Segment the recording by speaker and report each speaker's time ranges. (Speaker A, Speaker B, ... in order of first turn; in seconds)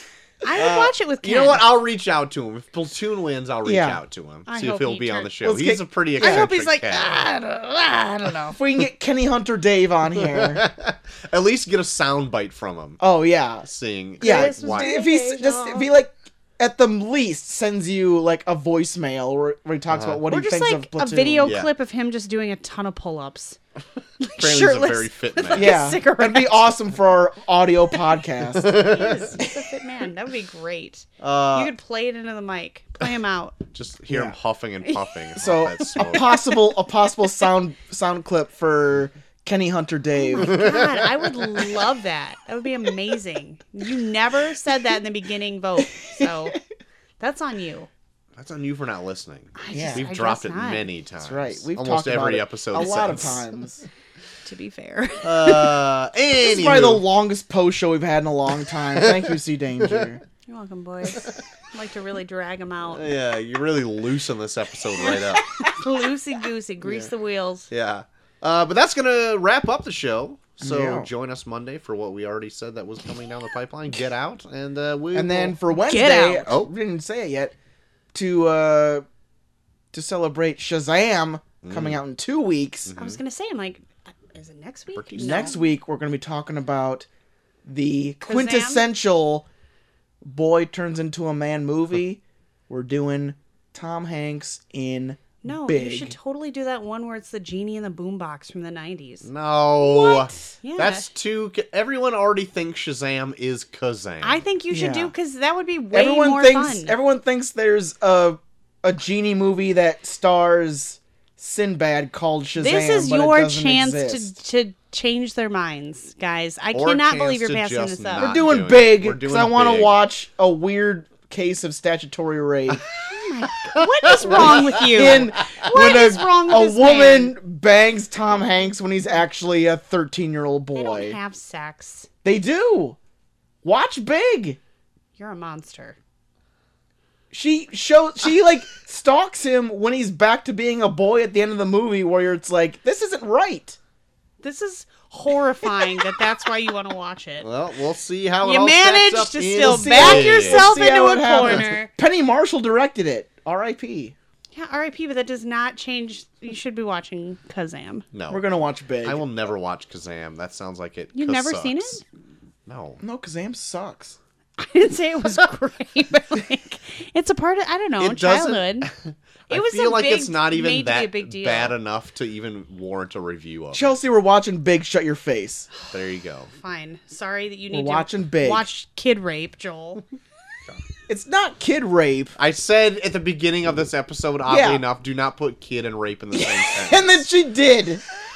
Speaker A: 0.4-1.6, 4.5-5.4, 6.2-8.6, 14.2-15.9, 20.3-23.6, 24.2-26.7, 28.6-33.6, 40.2-46.6, 47.2-47.9, 49.6-50.9, 54.4-55.8, 60.5-63.1, 65.0-67.7, 75.7-76.5, 83.0-85.7, 88.2-88.8, 95.4-99.3, 99.8-101.0, 104.2-107.0, 112.6-118.3, 123.1-127.3, 130.7-132.1, 135.2-136.0, 144.4-147.5, 148.4-151.9, 154.5-158.1, 161.1-162.0, 164.6-168.9, 169.5-171.7, 176.5-180.0
Speaker B: 0.5-7.2, 10.2-13.0, 13.7-14.9, 19.9-20.2, 21.4-21.7, 24.4-25.9, 28.6-29.4, 31.2-31.7, 33.7-36.5, 40.4-41.8, 48.4-53.5, 55.2-57.0, 58.7-60.1, 61.1-61.4, 62.9-65.5, 67.7-75.6, 76.4-76.7, 81.6-82.0, 82.8-83.2, 84.9-85.5, 99.2-104.4, 116.7-119.9, 123.6-125.6, 147.4-150.8, 151.4-151.8, 158.1-158.5, 159.0-162.0, 162.7-163.0, 168.0-173.8, 175.9-176.5, 182.4-187.2
Speaker C: 3.6-4.0, 5.4-6.5, 8.5-10.6, 13.0-13.7, 14.2-21.5, 25.5-28.9, 34.1-34.4, 35.4-40.7, 49.7-50.0, 51.2-53.8, 56.4-60.2, 70.6-71.1, 75.1-77.5, 78.1-79.0, 79.9-82.9, 85.2-87.1, 87.6-89.5, 90.2-96.2, 104.7-105.1, 105.9-114.3, 118.2-122.8, 124.2-131.2, 132.2-133.0, 133.6-134.6, 137.3-143.8, 149.6-154.1, 158.3-159.2, 163.0-164.2, 173.7-175.7, 177.7-178.7, 181.1-182.3, 184.4-184.8, 186.3-188.0